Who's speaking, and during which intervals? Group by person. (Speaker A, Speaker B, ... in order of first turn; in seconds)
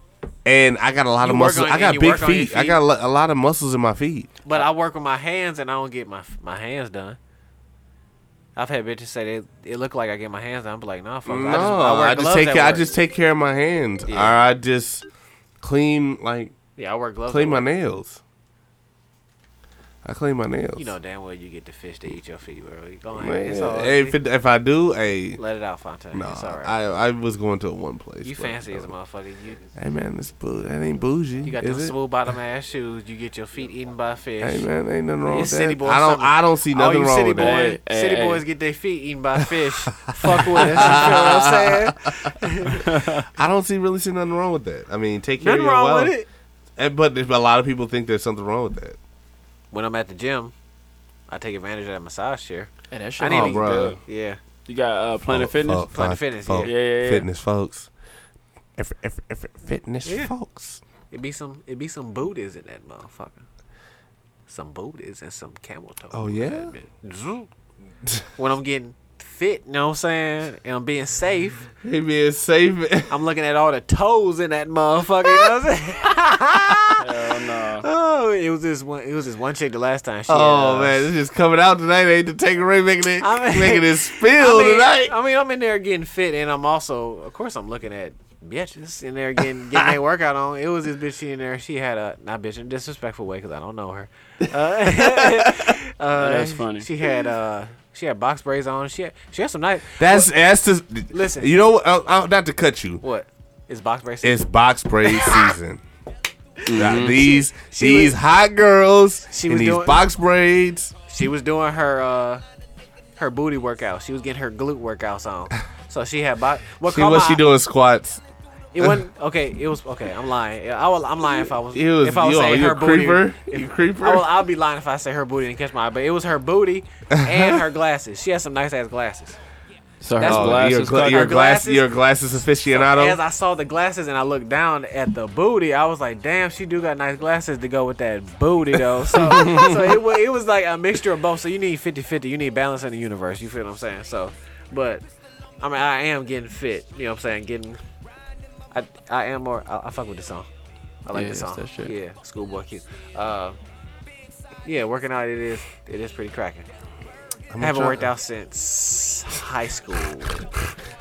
Speaker A: 0.5-4.3, 11.3-15.1, 15.6-16.6, 17.3-18.2, 20.1-20.9, 23.1-25.4, 26.1-28.9, 29.8-31.9, 34.4-37.6, 40.4-42.3, 43.3-46.1, 46.8-49.0, 53.2-54.0, 55.3-57.9, 58.8-60.8, 66.1-66.7, 71.8-73.2, 80.3-85.2, 94.9-95.7, 100.0-103.0, 104.2-105.8, 106.7-110.9, 116.8-118.2, 118.8-119.0, 121.3-124.3, 127.2-127.6, 130.2-133.2, 157.5-158.1
Speaker B: 1.2-2.8, 4.5-7.2, 8.6-12.9, 14.1-14.4, 16.8-17.7, 20.8-24.2, 25.4-26.7, 28.2-29.6, 31.4-34.7, 35.3-42.9, 45.4-46.3, 49.7-50.5, 51.3-54.4, 55.9-56.7, 60.0-60.3, 61.1-63.5, 64.5-67.5, 68.4-71.7, 73.1-77.0, 77.8-81.1, 83.2-100.3, 101.1-101.5, 103.0-104.5, 105.0-105.5, 106.7-108.2, 109.3-110.0, 111.1-112.4, 113.2-117.4, 118.7-129.4, 130.2-131.9, 132.7-145.1, 145.6-147.8, 148.7-150.5, 151.1-153.6, 154.7-156.7, 157.6-160.5
Speaker C: 37.4-38.5, 42.8-43.2, 52.9-54.0, 54.7-55.9, 56.6-57.3, 77.0-77.9, 96.2-96.9, 106.7-107.3, 130.0-131.3, 139.4-139.7, 151.1-151.9